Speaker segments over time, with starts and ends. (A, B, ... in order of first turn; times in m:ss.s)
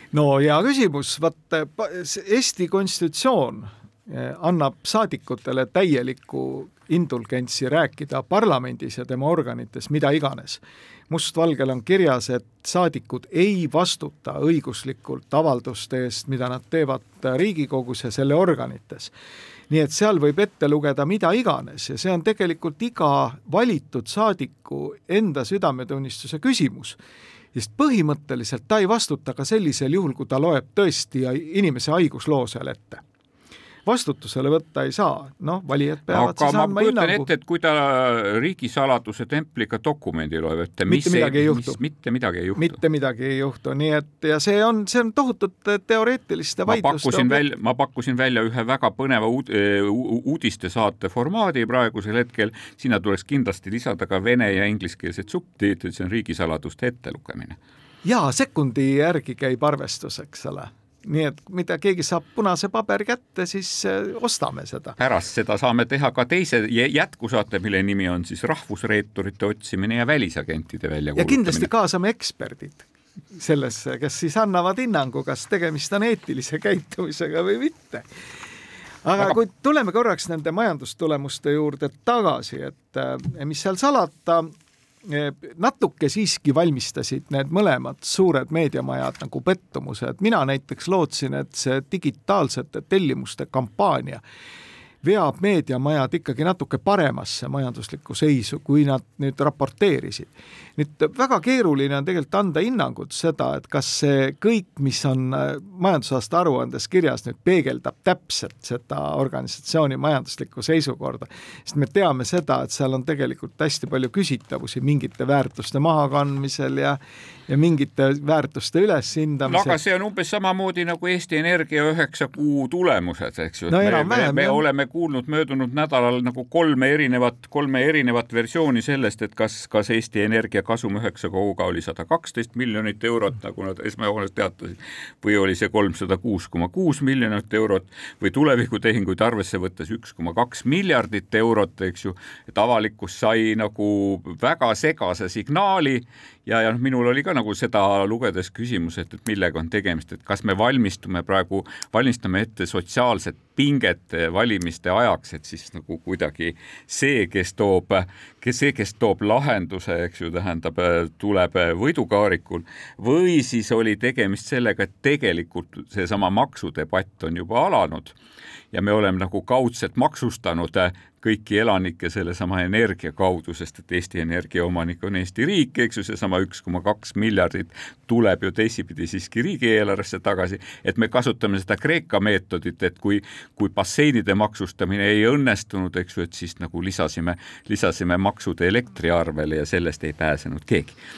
0:00.1-0:19.1 A
0:19.7-0:27.0 A
0:27.6-0:33.0 A
0:33.9-0:37.3 A
0:36.1-0:42.8 B
0:40.9-0:41.8 A
0:42.6-0:47.4 A
0:46.7-0:57.6 B
0:58.0-1:05.0 A
1:05.0-1:11.7 B
1:11.2-1:18.0 A
1:19.0-1:24.5 A
1:25.1-1:34.2 A
1:35.0-1:59.8 A
1:59.5-2:48.1 B
2:03.7-2:04.6 A
2:48.7-3:11.0 B